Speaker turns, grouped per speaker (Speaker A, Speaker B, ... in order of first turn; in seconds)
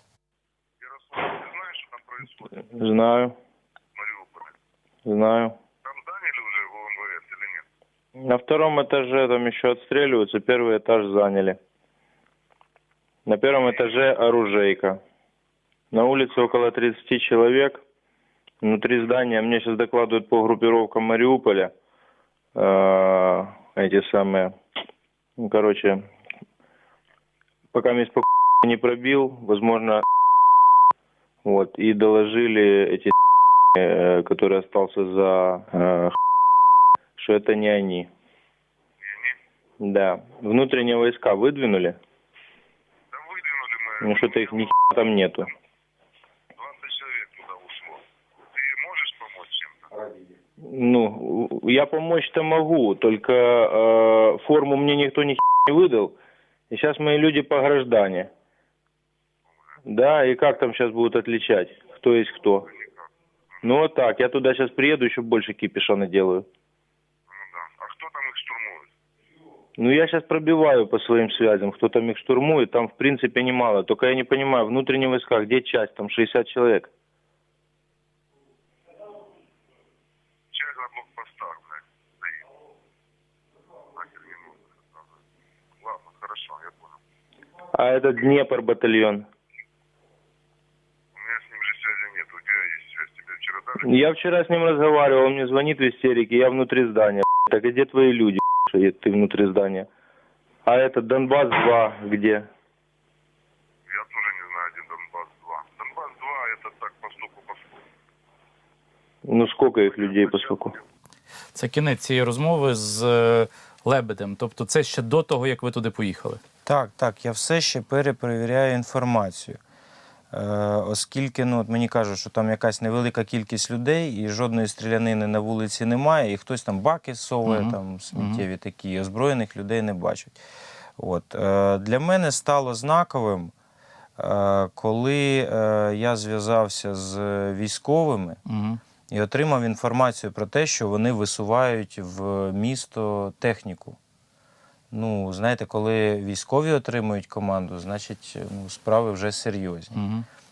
Speaker A: 0.8-2.6, 4.0-4.6, 5.8-7.7, 39.0-39.4, 43.1-44.7, 46.6-49.9, 59.5-59.8, 62.8-63.1, 67.3-68.9, 80.5-82.5, 83.9-85.1, 85.8-87.0, 91.1-93.9, 103.9-107.8, 110.1-110.6
Speaker B: 2.6-3.4, 5.0-5.6, 8.2-11.6, 13.3-15.0, 15.9-17.8, 18.6-21.7, 22.6-24.5, 25.4-26.0, 27.7-30.0, 31.4-33.1, 33.8-36.2, 37.2-38.1, 39.8-42.0, 44.0-45.5, 50.6-56.1, 56.7-58.3, 59.9-62.7, 63.6-66.5, 69.8-76.9, 87.8-89.3, 93.8-99.9, 100.7-102.5, 109.2-110.8
Speaker C: 111.5-116.4, 127.5-128.4, 138.5-138.8, 149.9-150.3
Speaker D: 116.7-119.6, 120.3-130.4, 131.0-133.5, 134.2-138.4, 139.1-144.0, 144.9-150.0